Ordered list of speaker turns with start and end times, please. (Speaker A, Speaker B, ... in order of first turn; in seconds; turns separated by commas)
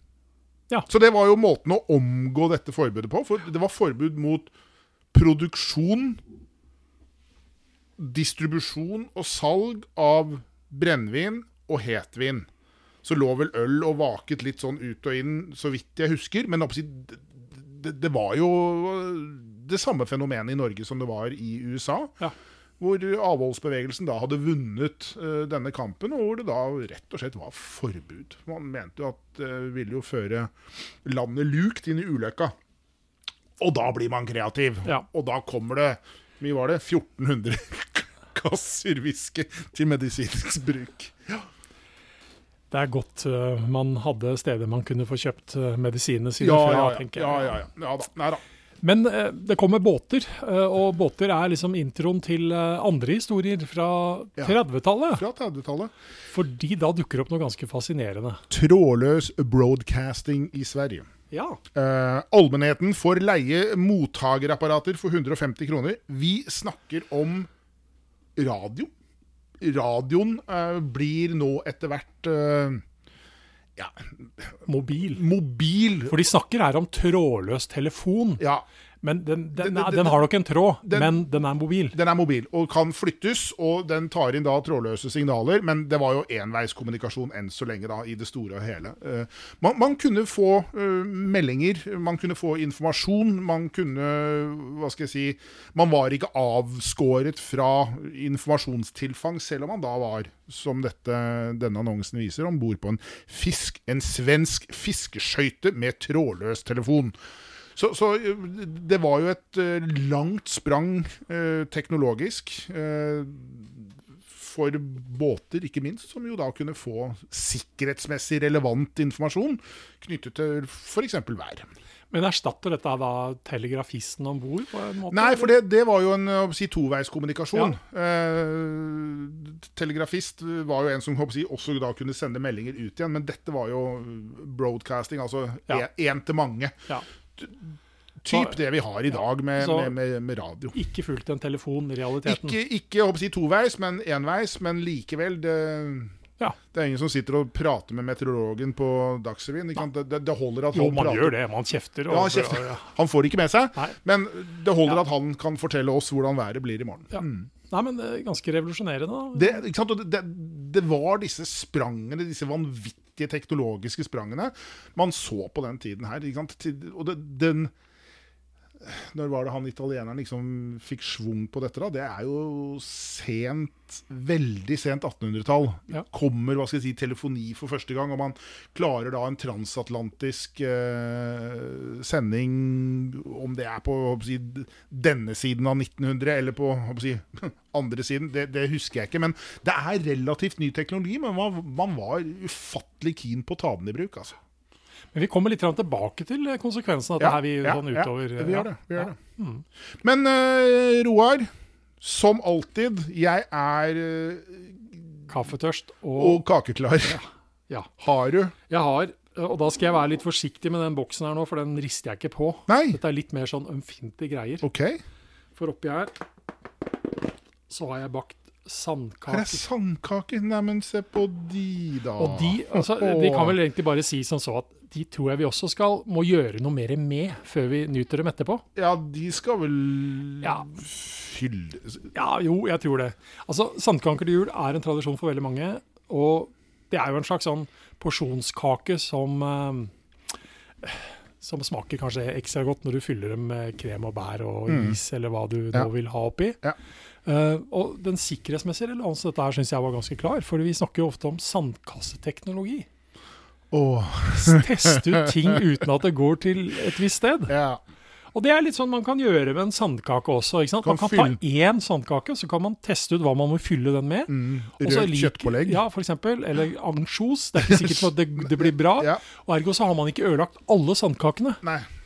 Speaker A: 0.9-4.5, Speaker A: 5.1-6.2, Speaker A: 8.0-12.5, Speaker A: 13.0-22.2, Speaker A: 22.8-30.5, Speaker A: 31.0-32.5, Speaker A: 33.6-41.5, Speaker B: 42.7-47.6, Speaker A: 46.4-48.4, Speaker B: 48.8-55.2, Speaker A: 55.1-55.9, Speaker B: 56.3-58.4, Speaker A: 58.5-61.1, Speaker B: 61.3-61.6, Speaker A: 61.8-67.5, Speaker A: 68.4-68.9, Speaker A: 69.6-72.8, Speaker A: 73.8-76.2, Speaker B: 74.7-75.2, Speaker B: 76.1-78.4, Speaker A: 78.4-78.7, Speaker B: 79.0-82.0, Speaker A: 79.6-80.2, Speaker A: 80.8-81.2, Speaker A: 81.9-107.2, Speaker A: 107.8-121.7, Speaker B: 122.1-125.5, Speaker A: 125.1-136.7, Speaker A: 137.4-140.8, Speaker B: 138.3-138.6, Speaker B: 139.1-139.9, Speaker B: 140.7-142.6, Speaker A: 142.2-146.1, Speaker A: 146.7-151.4, Speaker B: 150.7-152.9, Speaker A: 152.1-157.5, Speaker B: 157.1-159.6, Speaker A: 159.3-167.7, Speaker A: 168.8-194.4, Speaker B: 195.1-199.6, Speaker A: 197.2-199.2, Speaker A: 200.0-201.5, Speaker A: 202.0-205.3, Speaker B: 205.3-206.4, Speaker A: 206.2-207.2, Speaker B: 207.1-207.9, Speaker A: 208.0-208.6, Speaker B: 208.7-214.7, Speaker A: 212.7-213.0, Speaker A: 214.6-215.0, Speaker B: 215.6-216.1, Speaker B: 217.7-219.6, Speaker A: 219.3-223.6, Speaker B: 222.2-228.6, Speaker A: 228.8-232.0, Speaker B: 230.4-230.7, Speaker B: 232.1-239.9, Speaker B: 240.8-246.6, Speaker A: 244.7-245.0, Speaker B: 247.3-252.9, Speaker A: 253.7-255.6, Speaker B: 254.3-257.5, Speaker A: 257.5-257.8, Speaker B: 258.3-271.6, Speaker A: 260.8-261.4, Speaker A: 264.3-265.8, Speaker A: 267.6-269.2